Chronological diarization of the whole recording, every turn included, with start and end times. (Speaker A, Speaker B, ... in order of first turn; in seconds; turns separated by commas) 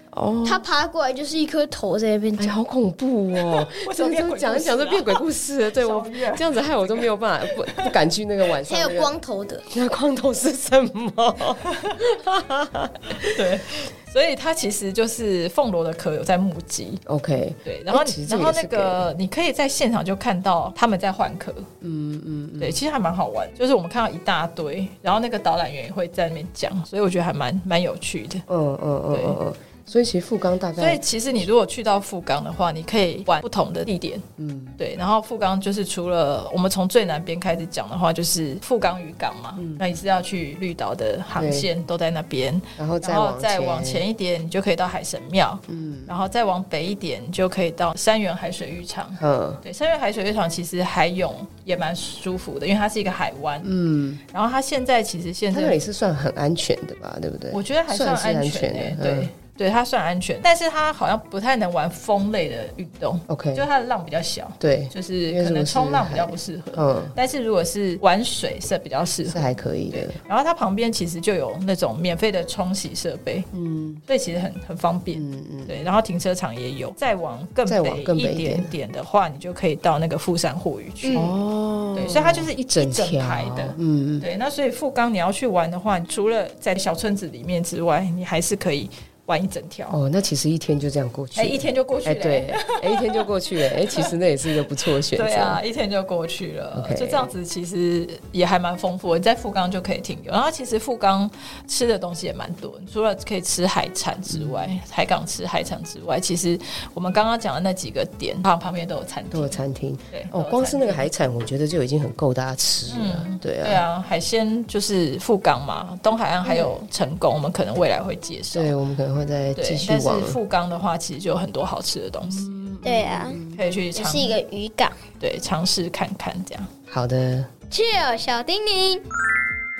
Speaker A: 0.1-0.7, Speaker B: 0.4-2.6, Speaker A: 2.4-9.1, Speaker C: 3.4-7.1, Speaker C: 7.6-7.9, Speaker B: 8.6-9.6, Speaker A: 9.7-13.7, Speaker C: 11.7-12.0, Speaker C: 13.2-17.0, Speaker A: 17.1-19.1, Speaker C: 17.6-21.7, Speaker A: 21.8-22.8, Speaker C: 22.6-28.4, Speaker A: 28.5-31.0, Speaker C: 29.1-29.4, Speaker C: 30.8-34.3, Speaker A: 34.4-34.8, Speaker C: 34.8-53.7, Speaker A: 39.6-39.8, Speaker A: 41.4-41.7, Speaker A: 42.8-44.0, Speaker A: 45.7-46.2, Speaker A: 49.2-49.6, Speaker A: 53.6-54.2, Speaker C: 54.3-55.8, Speaker A: 55.5-59.3, Speaker C: 57.5-73.5, Speaker A: 63.3-63.7, Speaker A: 64.6-67.2, Speaker A: 69.2-70.2, Speaker A: 73.5-74.0, Speaker C: 74.1-81.3, Speaker A: 75.1-75.8, Speaker A: 77.7-78.8, Speaker B: 81.0-81.3, Speaker A: 81.1-84.3, Speaker C: 81.9-90.0, Speaker A: 89.9-95.6, Speaker C: 91.3-111.1, Speaker A: 96.7-97.3, Speaker A: 104.3-104.7, Speaker A: 109.3-113.8, Speaker C: 112.9-118.8, Speaker B: 116.4-116.7, Speaker A: 118.5-120.4, Speaker C: 119.5-122.5, Speaker A: 122.2-123.6, Speaker B: 122.8-123.4, Speaker C: 123.5-124.4, Speaker B: 123.9-125.0, Speaker C: 125.2-126.7, Speaker A: 126.9-127.5, Speaker B: 127.7-129.0